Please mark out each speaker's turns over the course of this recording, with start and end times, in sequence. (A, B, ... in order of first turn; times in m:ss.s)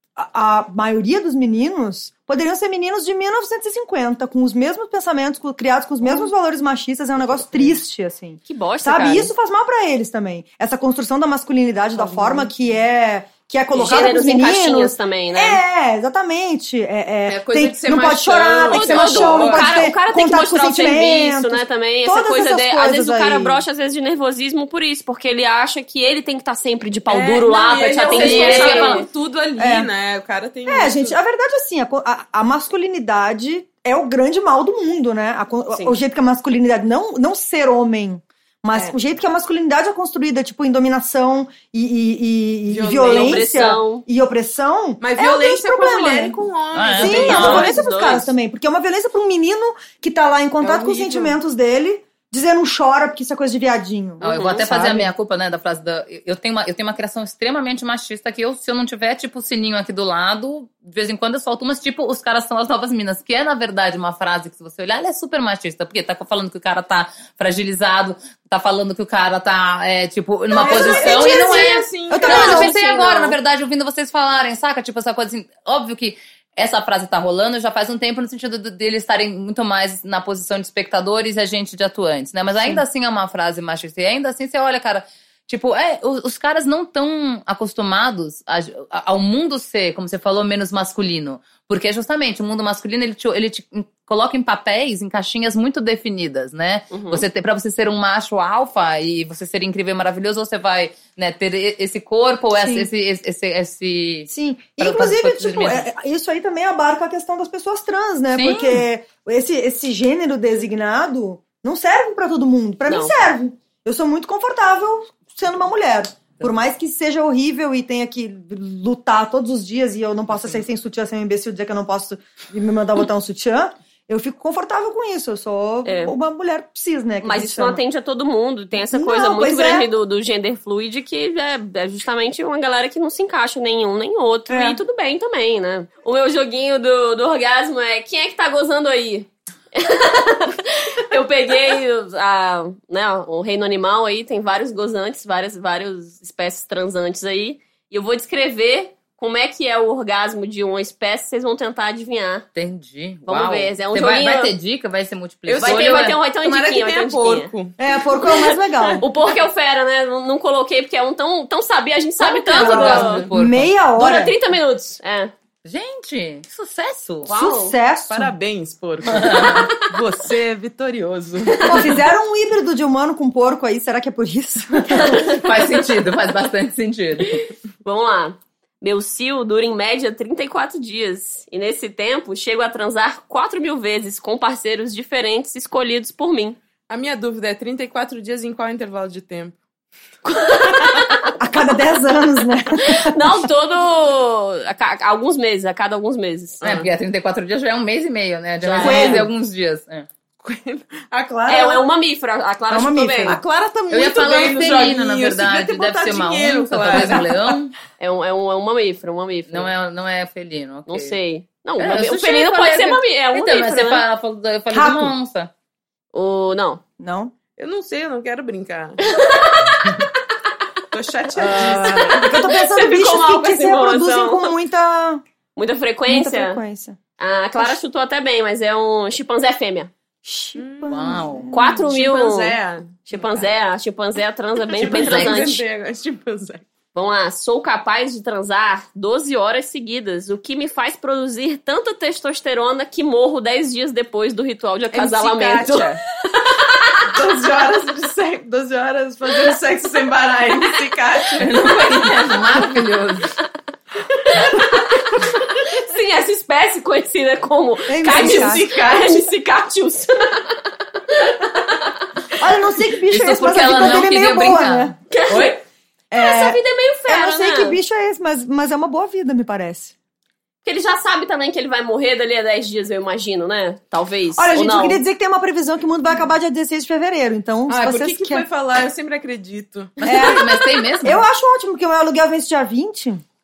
0:00.2-0:23.6 A
0:08.5-0:09.3 B
0:12.0-0:12.5 C
0:13.7-0:15.6 B
0:17.3-0:19.7 C
0:18.7-0:29.1 B
0:27.1-0:31.2 C
0:28.1-0:29.0 D
0:29.6-0:29.9 A
0:30.7-0:46.4 A
0:42.7-0:43.5 C
0:43.1-0:44.0 B
0:45.0-0:47.7 C
0:46.7-0:47.7 D
0:47.0-0:55.1 A
0:47.0-0:48.3 B
0:50.6-0:51.4 C
0:54.2-1:45.9 D
0:54.2-0:54.6 B
1:10.5-1:12.7 C
1:10.5-1:11.6 A
1:12.1-1:12.7 A
1:12.2-1:13.4 B
1:36.9-1:37.2 B
1:42.6-1:42.9 A
1:44.3-2:07.8 A
1:48.3-1:48.8 D
1:52.9-1:53.1 B
2:00.3-2:00.6 D
2:05.8-2:06.2 B
2:07.2-2:32.5 B
2:08.8-2:09.9 A
2:14.5-2:14.8 A
2:32.6-2:36.2 D
2:33.3-2:34.5 B
2:35.5-2:37.8 C
2:35.6-2:37.5 B
2:37.8-2:39.0 A
2:39.0-2:43.2 B
2:42.5-2:44.4 A
2:42.5-2:43.7 D
2:43.0-2:43.2 C
2:44.0-2:45.3 B
2:45.6-2:47.3 D
2:47.3-2:47.8 B
2:47.3-2:48.3 A
2:48.1-2:51.9 C
2:49.1-2:49.7 D
2:51.7-2:55.3 A
2:55.1-2:57.5 D
2:57.8-3:06.6 B
3:06.9-3:09.6 C
3:10.2-3:11.4 B
3:11.4-3:13.5 A
3:12.8-3:16.7 B
3:16.6-3:20.1 D
3:18.6-3:19.3 B
3:18.8-3:19.3 A
3:20.4-3:21.9 C
3:21.5-3:23.4 B
3:22.7-3:23.4 A
3:23.3-3:27.3 C
3:23.9-3:27.7 D
3:26.9-3:27.2 A
3:28.0-3:29.7 B
3:29.5-3:31.2 D
3:30.9-3:34.0 B
3:31.8-3:35.5 D
3:34.7-3:35.1 A
3:36.1-3:36.8 B
3:37.0-3:37.3 A
3:37.6-3:39.0 C
3:39.1-3:40.0 B
3:40.9-3:42.2 C
3:41.4-3:45.2 A
3:41.7-3:44.6 B
3:45.6-3:46.6 B
3:46.1-3:47.0 A
3:47.2-3:49.9 B
3:50.2-3:51.8 A
3:50.6-3:51.1 C
3:50.9-3:51.5 D
3:51.5-3:55.6 B
3:51.7-3:53.5 C
3:54.7-3:56.6 C
3:54.8-3:55.4 D
3:57.0-4:06.0 B
4:04.9-4:06.0 C
4:07.0-4:11.8 C
4:11.4-4:13.4 D
4:14.3-4:21.9 B
4:17.9-4:18.6 A
4:18.1-4:19.2 C
4:22.4-4:25.0 A
4:23.1-4:25.6 D
4:25.1-4:25.6 B
4:26.1-4:30.0 A
4:26.1-4:27.8 B
4:30.6-4:35.0 B
4:34.4-4:38.5 A
4:37.7-4:40.0 C
4:40.0-4:41.2 D
4:40.0-4:43.2 A